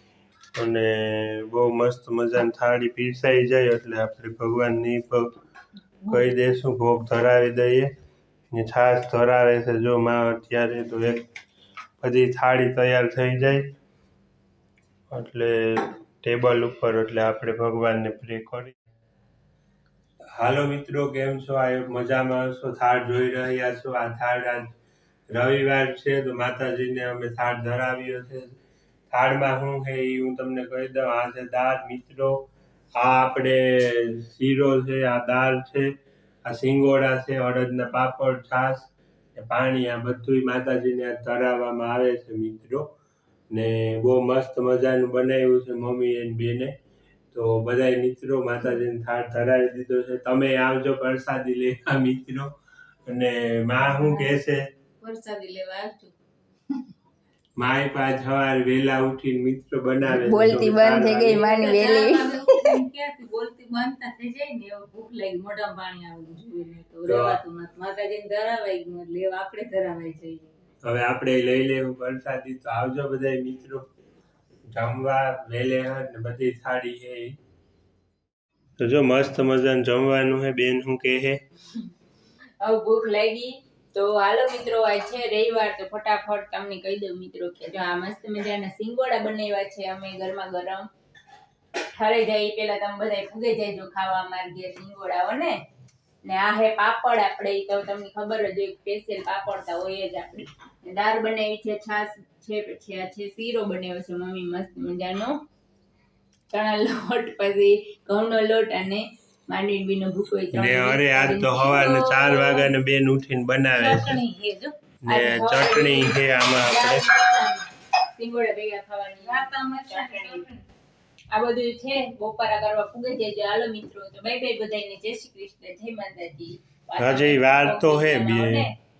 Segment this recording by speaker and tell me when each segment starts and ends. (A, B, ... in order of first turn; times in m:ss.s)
0:00.5-0:05.3 A
0:06.0-0:07.9 A
0:08.5-0:11.3 A
0:12.0-0:13.7 A
0:15.1-0:18.8 A
0:20.4-0:24.7 A
0:25.3-0:28.6 A
0:29.1-0:35.9 A
0:36.4-0:42.9 A
0:43.5-0:46.8 A
0:47.3-0:52.5 A
0:53.0-0:54.6 A
0:55.0-0:56.1 B
0:57.6-1:01.5 A
1:00.0-1:02.8 C
1:01.2-1:10.6 B
1:07.1-1:07.4 A
1:10.8-1:13.8 A
1:14.7-1:17.4 A
1:18.8-1:21.4 A
1:22.6-1:30.8 C
1:31.8-1:35.5 C
1:36.2-1:45.4 C
1:46.5-1:52.6 C
1:50.5-1:54.2 A
1:52.1-1:52.5 B
1:53.7-1:54.8 B
1:55.0-1:57.0 A
1:55.1-2:00.4 C
1:59.2-2:00.6 B
2:01.3-2:08.7 C
2:07.0-2:08.6 A